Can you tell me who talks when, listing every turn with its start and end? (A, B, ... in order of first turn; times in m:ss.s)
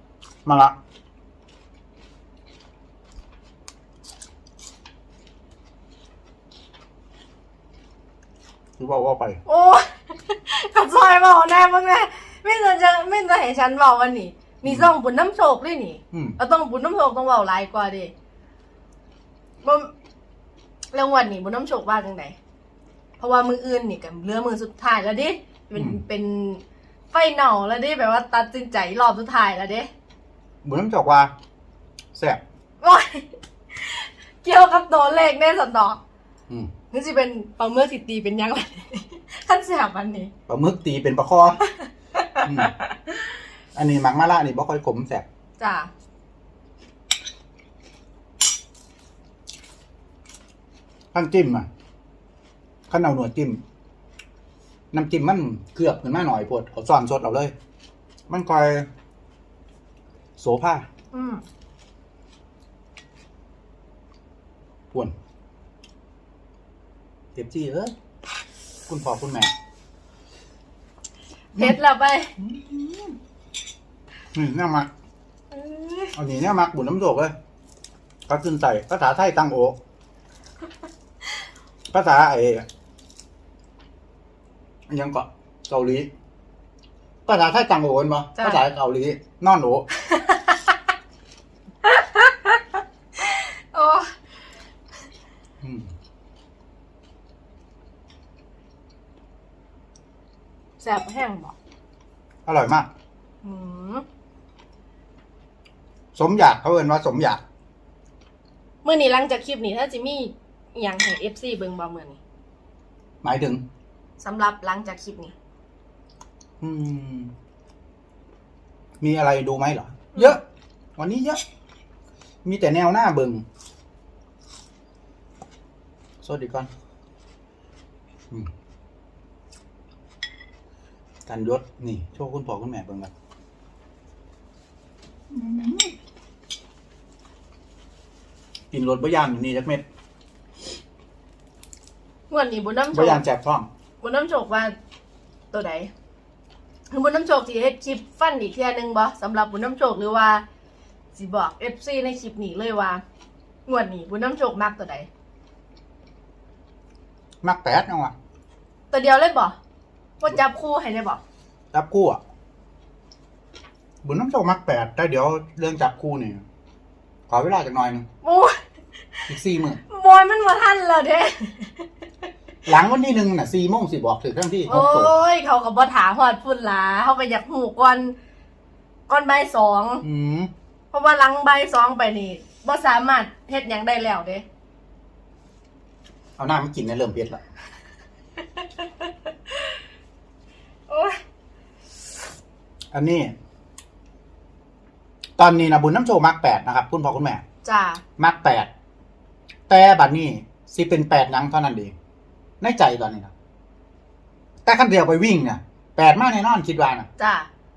0:00.4-0:00.7 A
0:08.8-0:09.4 A
0:09.5-0:18.1 B
0:14.6-0:14.9 A
0:16.1-0:16.4 A
0:19.6-0:19.9 B
0:20.9-0:22.4 B
0:23.2-0:29.9 B
0:30.6-0:31.3 A
0:32.2-0:32.4 A
0:32.8-0:36.0 B
0:36.9-0:40.3 B
0:40.5-0:41.6 A
0:41.7-0:42.9 B
0:42.4-0:42.7 A
0:43.8-0:45.2 A
0:45.6-0:45.9 B
0:51.1-0:51.7 A
0:52.9-0:53.6 A
0:54.9-0:57.5 A
0:58.3-0:58.9 A
1:00.4-1:00.8 A
1:01.1-1:01.4 B
1:07.4-1:07.9 A
1:08.9-1:09.5 A
1:11.6-1:12.3 B
1:12.4-1:13.2 A
1:14.3-1:14.9 A
1:15.5-1:16.2 B
1:16.2-1:17.3 A
1:18.3-1:19.8 A
1:21.9-1:22.6 A
1:24.9-1:26.1 A
1:27.3-1:29.9 A
1:28.4-1:28.6 B
1:30.0-1:30.8 B
1:31.8-1:32.6 B
1:33.2-1:34.2 B
1:35.6-1:35.9 A
1:40.8-1:41.6 B
1:42.5-1:42.9 A
1:43.4-1:44.0 B
1:46.2-1:47.4 A
1:48.8-1:52.2 B
1:53.2-1:53.6 A
1:54.2-1:55.3 B
1:56.6-1:57.3 A
1:59.0-2:00.4 A
2:00.1-2:00.4 B
2:01.0-2:01.4 A
2:02.4-2:03.4 A
2:06.2-2:06.7 A
2:11.3-2:13.1 A
2:15.3-2:15.9 A
2:18.7-2:19.8 A
2:22.3-2:23.2 B
2:22.9-2:23.7 A
2:24.0-2:24.7 B
2:25.5-2:25.9 B
2:26.9-2:30.4 B
2:31.2-2:33.0 B
2:33.7-2:35.1 B
2:37.4-2:38.1 A
2:38.9-2:39.6 B
2:40.2-2:41.2 B
2:41.7-2:42.2 A
2:44.0-2:46.4 A
2:47.3-2:48.1 A
2:48.2-2:48.6 B
2:49.3-2:49.8 A
2:49.9-2:51.9 B
2:52.7-2:55.1 A
2:54.7-2:58.2 B
2:59.1-3:00.0 B
3:00.0-3:00.5 A
3:00.9-3:04.4 B
3:06.4-3:07.4 A
3:08.6-3:09.8 B
3:10.9-3:11.2 B
3:12.9-3:13.3 A
3:15.4-3:17.4 A
3:17.6-3:18.0 B
3:18.2-3:18.7 A
3:19.7-3:21.9 A
3:22.6-3:23.3 A
3:24.7-3:27.1 A
3:27.2-3:27.5 B